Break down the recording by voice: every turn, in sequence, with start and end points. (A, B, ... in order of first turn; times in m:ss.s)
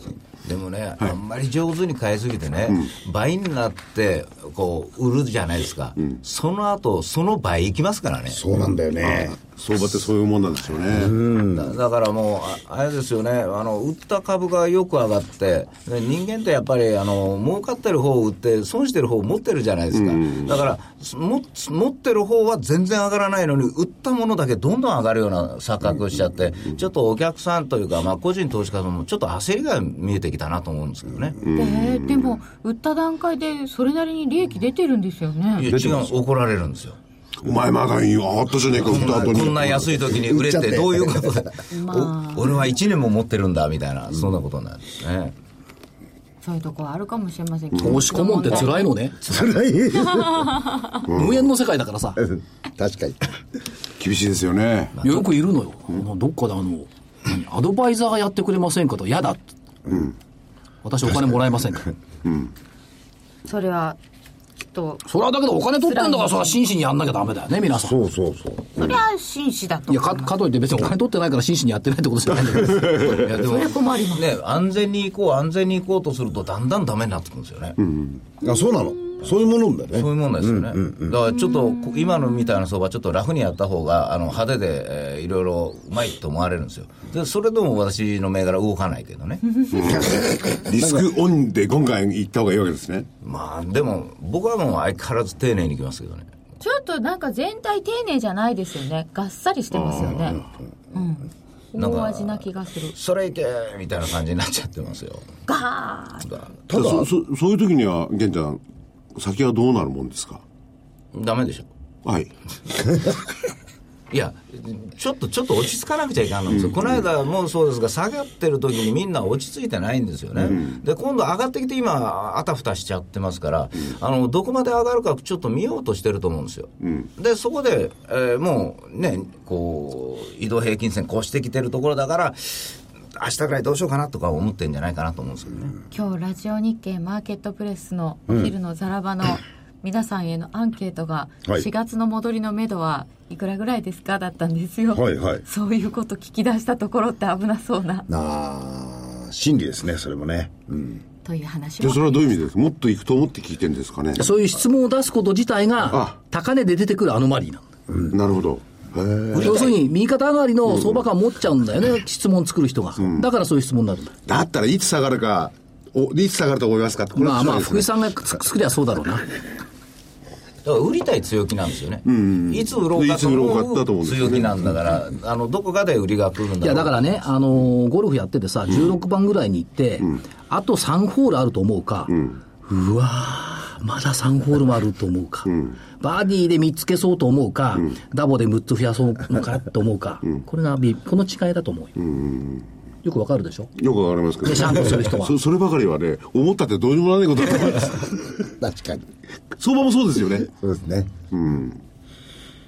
0:00.4-0:08.4 A
0:08.3-0:09.4 B
0:09.0-0:11.1 C
0:10.9-0:11.8 B
0:11.4-0:31.4 A
0:19.9-0:20.5 C
0:31.4-0:32.4 C
0:31.5-0:35.7 D
0:35.6-0:37.0 A
0:35.6-0:36.1 C
0:37.4-0:39.9 C
0:38.8-0:45.3 A
0:38.9-0:41.5 B
0:41.7-0:42.7 D
0:46.4-0:48.9 D
0:47.7-0:48.0 C
0:47.8-0:49.2 E
0:49.2-0:50.6 B
0:50.1-0:50.9 D
0:51.0-0:51.4 C
0:51.1-0:52.2 E
0:52.2-0:53.3 B
0:54.0-0:55.0 C
0:55.0-0:59.4 E
1:00.8-1:01.9 E
1:03.4-1:04.0 D
1:04.6-1:05.0 D
1:05.0-1:08.0 E
1:05.8-1:06.6 D
1:07.8-1:09.0 B
1:08.8-1:10.4 D
1:09.9-1:13.2 E
1:13.0-1:17.8 A
1:13.2-1:14.3 D
1:17.8-1:18.1 C
1:18.4-1:21.2 B
1:19.9-1:29.4 A
1:21.4-1:22.5 D
1:29.7-1:33.1 C
1:30.0-1:31.0 B
1:33.2-1:36.3 A
1:36.6-1:40.4 D
1:39.7-1:40.4 C
1:40.9-1:42.9 D
1:41.8-1:45.2 A
1:45.5-1:46.3 D
1:46.7-1:47.1 B
1:46.7-1:48.6 C
1:49.1-1:50.4 C
1:51.1-1:51.7 A
1:52.0-1:52.3 C
1:54.1-2:15.7 A
1:56.5-1:57.0 C
2:00.4-2:00.8 C
2:06.8-2:07.1 C
2:15.9-2:28.1 D
2:18.3-2:18.5 B
2:24.9-2:25.4 B
2:28.1-2:31.0 B
2:31.2-2:32.4 D
2:31.8-2:34.3 C
2:34.2-2:37.6 E
2:35.9-2:36.2 C
2:38.1-2:39.8 C
2:39.3-2:44.1 E
2:43.0-2:43.3 C
2:44.2-2:47.9 C
2:47.2-2:49.2 E
2:50.6-2:57.0 A
2:52.0-2:54.7 C
2:56.6-3:12.0 E
3:12.0-3:12.6 C
3:13.0-3:13.7 E
3:13.8-3:18.3 C
3:14.4-3:15.3 E
3:18.6-3:19.1 B
3:19.6-3:20.5 C
3:20.5-3:21.1 B
3:21.3-3:21.8 C